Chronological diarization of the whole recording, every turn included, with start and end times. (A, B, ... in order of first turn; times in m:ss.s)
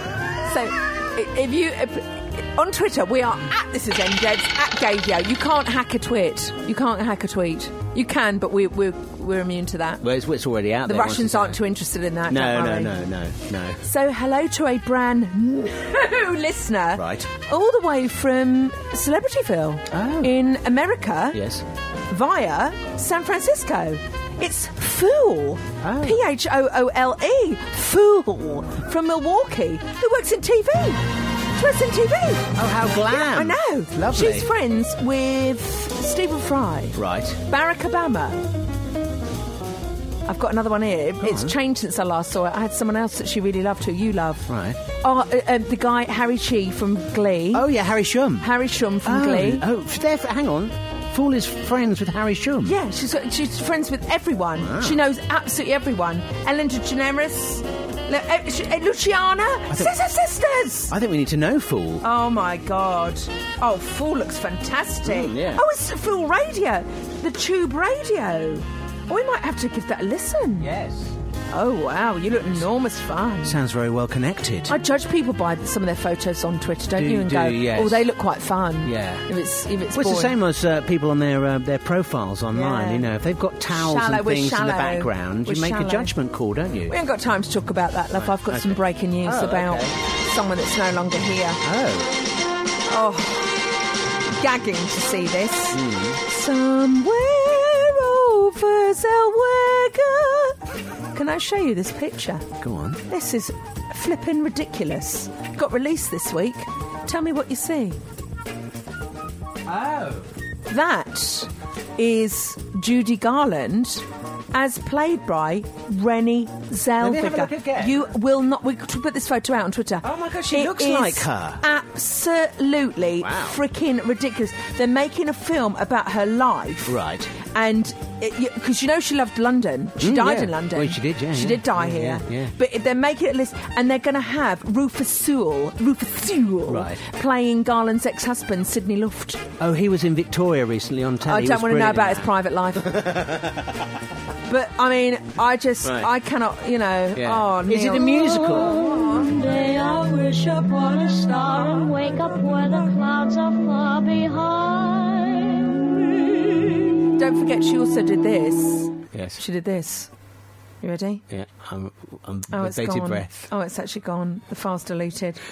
0:00.4-0:10.0 A
0:10.0-0:11.6 B
0:10.8-0:13.0 A
0:12.3-0:13.8 B
0:13.8-0:21.4 A
0:16.9-0:17.3 B
0:19.9-0:20.4 B
0:21.3-0:21.6 B
0:22.1-0:38.4 A
0:25.8-0:26.2 B
0:32.5-0:34.5 B
0:36.9-0:37.4 B
0:40.2-0:47.7 A
0:41.2-0:41.5 B
0:44.5-0:44.8 B
0:47.5-0:48.5 B
0:48.4-0:49.6 A
0:49.0-0:52.8 B
0:52.6-1:00.9 A
0:54.6-0:55.0 B
1:00.9-1:02.0 B
1:02.0-1:10.7 A
1:05.0-1:05.6 B
1:10.6-1:11.1 B
1:11.5-1:13.6 A
1:13.4-1:14.8 B
1:14.7-1:20.4 A
1:16.9-1:18.0 B
1:18.8-1:19.3 B
1:19.9-1:27.0 B
1:22.5-1:23.1 A
1:23.7-1:26.1 A
1:26.9-1:31.6 A
1:28.2-1:30.0 B
1:31.6-1:32.2 B
1:32.9-1:33.7 A
1:34.3-1:40.6 A
1:35.7-1:36.2 B
1:41.1-1:42.5 A
1:42.6-1:43.0 B
1:43.1-1:48.0 A
1:49.6-1:50.3 B
1:50.7-2:19.5 A
1:57.0-1:58.1 B
2:00.0-2:01.6 B
2:03.2-2:03.6 B
2:06.8-2:07.3 B
2:10.0-2:12.5 B
2:16.7-2:17.0 B
2:19.6-2:22.3 B
2:21.2-2:23.3 A
2:22.9-2:23.7 B
2:24.5-2:28.5 A
2:25.8-2:26.1 B
2:27.2-2:28.8 B
2:28.4-2:35.7 C
2:37.2-2:40.1 A
2:39.1-2:39.4 B
2:40.8-2:41.2 A
2:41.3-2:43.5 B
2:42.5-2:45.4 A